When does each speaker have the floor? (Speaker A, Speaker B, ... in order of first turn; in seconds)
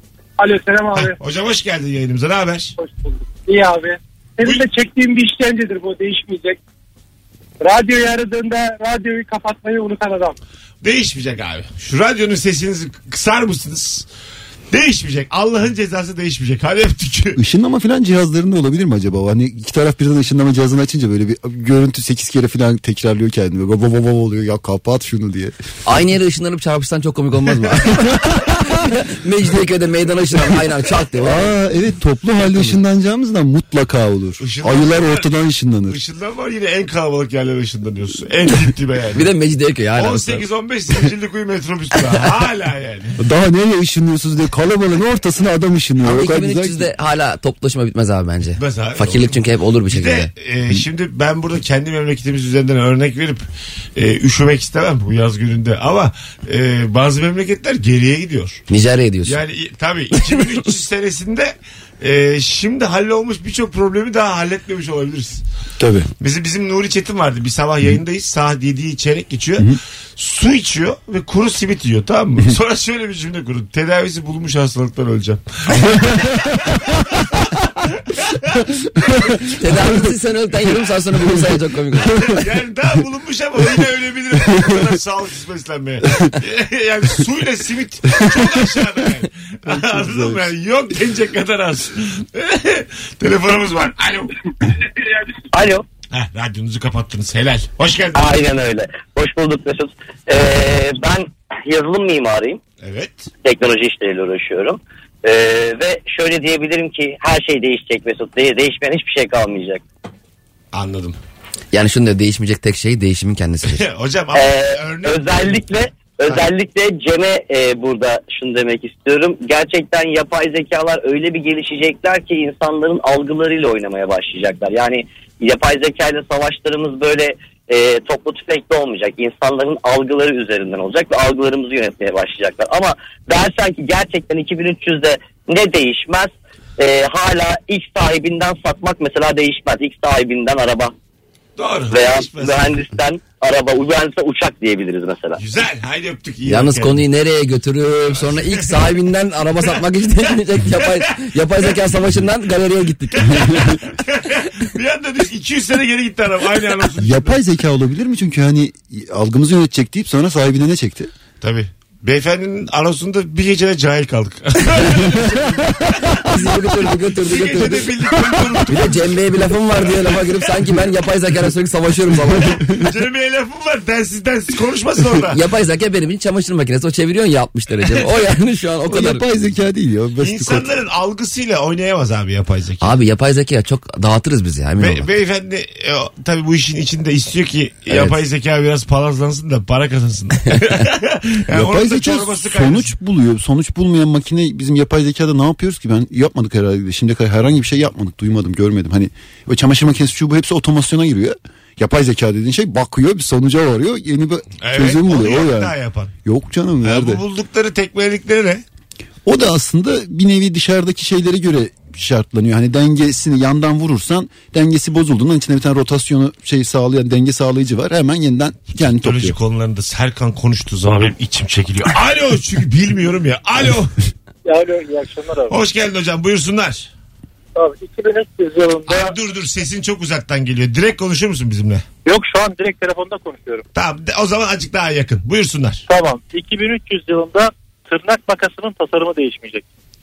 Speaker A: 0.4-1.2, 2.8-6.6, 7.6-10.4, 224.4-225.6, 227.6-229.1, 232.0-233.6, 235.9-239.6
Speaker B: 0.9-2.7, 10.8-14.1, 14.7-17.4, 34.4-35.3, 35.9-39.3, 39.9-43.2, 48.6-53.4, 53.9-58.6, 59.2-65.4, 66.2-79.3, 82.2-94.3, 96.1-98.4, 102.8-103.3, 110.7-111.2, 113.7-115.7, 141.6-142.8, 145.4-147.0, 148.2-148.8, 150.8-151.0, 153.1-157.4, 161.4-169.2, 169.7-170.4, 172.6-175.4, 180.2-182.9, 184.8-192.9, 204.6-206.1, 206.8-208.6, 218.8-223.9, 225.5-226.9, 228.9-231.8, 233.7-235.8
Speaker C: 17.4-25.5, 31.2-36.0, 43.2-46.9, 65.8-66.1, 89.8-90.3, 157.0-161.1, 178.9-180.7, 191.5-205.7, 206.2-207.2, 209.2-219.4
Speaker D: 25.9-31.5, 39.1-40.4, 46.0-50.3, 58.7-59.4, 79.5-82.3, 111.7-113.8, 146.5-153.7, 166.0-167.9, 168.7-172.6, 175.3-179.2, 182.8-185.1, 187.9-188.2
Speaker E: 95.5-95.8, 98.1-102.6, 103.4-109.8, 114.3-140.9, 141.9-145.4